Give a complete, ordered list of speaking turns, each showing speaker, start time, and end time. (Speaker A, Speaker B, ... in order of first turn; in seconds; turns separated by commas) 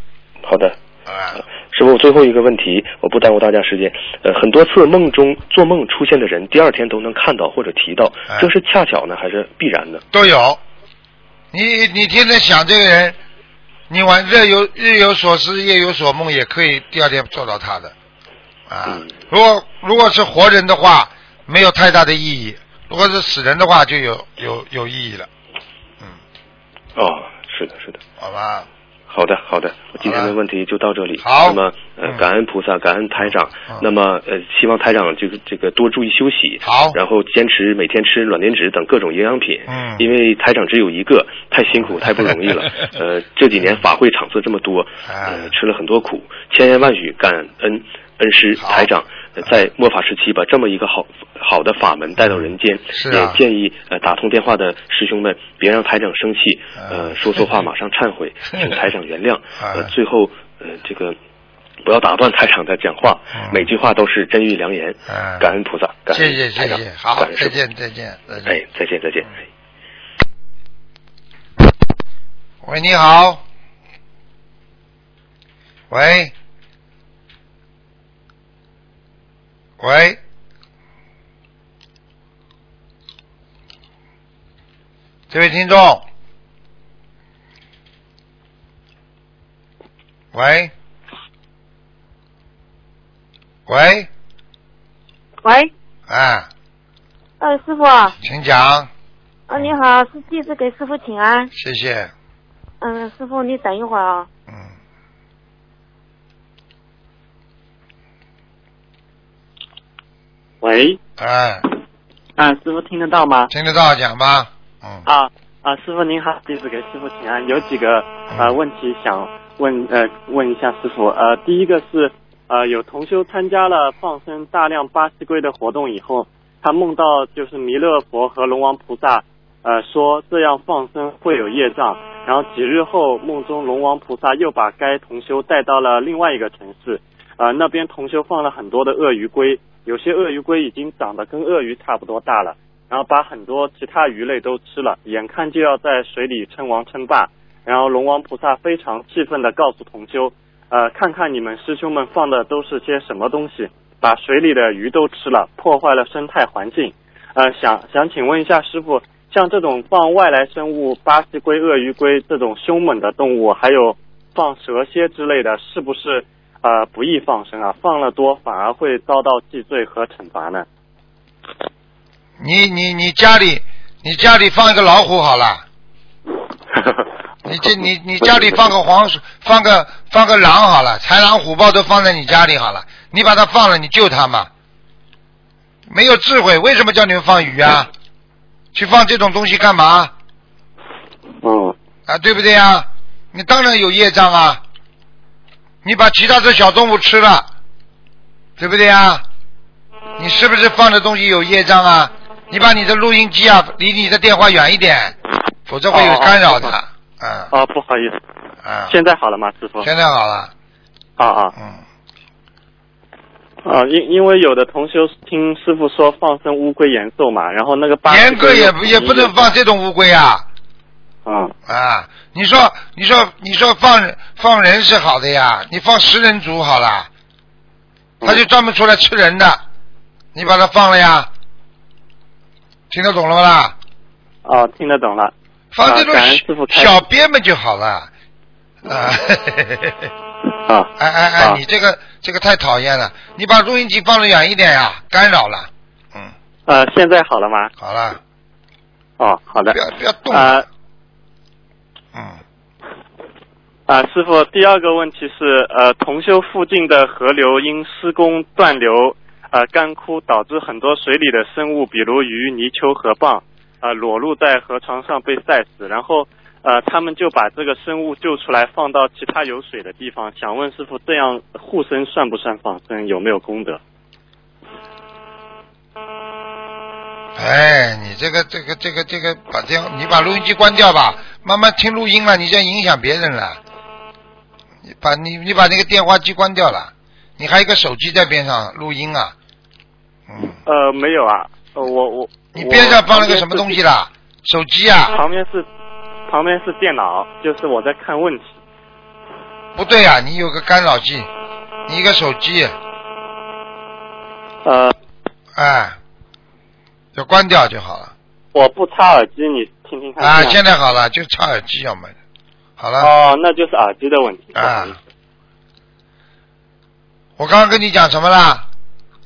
Speaker A: 0.4-0.8, Speaker B: 1.1-1.4, Speaker A: 1.7-10.0, Speaker B: 10.1-10.6, Speaker B: 11.5-13.2, Speaker B: 13.9-17.9, Speaker B: 18.7-25.3, Speaker A: 18.9-19.1, Speaker A: 26.9-28.0, Speaker B: 28.2-28.7, Speaker A: 29.1-61.2, Speaker B: 30.0-30.3, Speaker B: 31.2-32.2, Speaker B: 36.6-37.0, Speaker B: 39.7-40.0, Speaker B: 45.0-45.5, Speaker B: 48.6-48.9, Speaker B: 52.9-53.4, Speaker B: 56.8-57.6, Speaker B: 59.6-59.9, Speaker A: 61.8-67.6, Speaker B: 63.3-63.7, Speaker B: 65.1-65.5, Speaker B: 66.1-68.5, Speaker A: 68.4-69.4, Speaker B: 72.6-73.4, Speaker B: 75.9-76.3, Speaker B: 79.8-80.2, Speaker B: 85.3-86.0, Speaker B: 90.3-90.7, Speaker B: 93.7-94.1, Speaker B: 96.1-96.5, Speaker C: 97.4-98.0, Speaker B: 98.2-98.9, Speaker C: 99.5-101.4, Speaker B: 101.5-102.1, Speaker C: 102.8-104.2, Speaker B: 104.5-104.7, Speaker D: 110.6-111.0, Speaker B: 111.2-111.6, Speaker D: 112.3-113.5, Speaker B: 113.5-115.0, Speaker D: 115.0-170.7, Speaker B: 172.4-175.6, Speaker B: 177.4-184.5, Speaker B: 185.9-187.9, Speaker B: 188.7-190.1, Speaker D: 191.4-191.7, Speaker B: 192.1-194.6, Speaker B: 195.8-197.5, Speaker B: 198.6-199.2, Speaker B: 200.2-205.2, Speaker B: 205.7-207.5, Speaker D: 205.9-206.7, Speaker D: 207.5-208.2, Speaker B: 208.6-208.9, Speaker D: 208.9-209.9, Speaker B: 209.8-210.5, Speaker D: 211.2-211.5, Speaker B: 211.5-211.8, Speaker D: 213.6-219.5, Speaker B: 218.1-220.4, Speaker D: 221.2-221.5, Speaker B: 221.7-227.1, Speaker B: 228.2-229.6, Speaker B: 230.3-231.3, Speaker B: 232.9-233.7, Speaker D: 234.4-235.3, Speaker B: 235.7-238.1, Speaker D: 235.8-237.0, Speaker B: 238.8-240.1, Speaker D: 240.6-241.6, Speaker B: 241.0-246.3, Speaker D: 246.7-247.7, Speaker B: 247.8-248.2, Speaker D: 249.2-249.8, Speaker B: 249.7-250.6, Speaker D: 250.3-250.7, Speaker B: 252.1-252.4, Speaker D: 253.9-273.8, Speaker B: 277.3-283.6, Speaker B: 284.9-289.3, Speaker B: 290.3-290.6, Speaker D: 290.6-293.8, Speaker B: 292.5-295.2, Speaker D: 295.1-295.7, Speaker D: 296.3-298.5, Speaker B: 299.7-301.3, Speaker B: 301.9-302.7, Speaker D: 304.6-304.9, Speaker B: 305.5-306.0, Speaker B: 307.1-308.1, Speaker D: 308.5-310.6, Speaker B: 310.2-312.1, Speaker B: 312.8-313.1, Speaker D: 313.0-315.0, Speaker B: 314.6-314.9, Speaker B: 317.4-318.6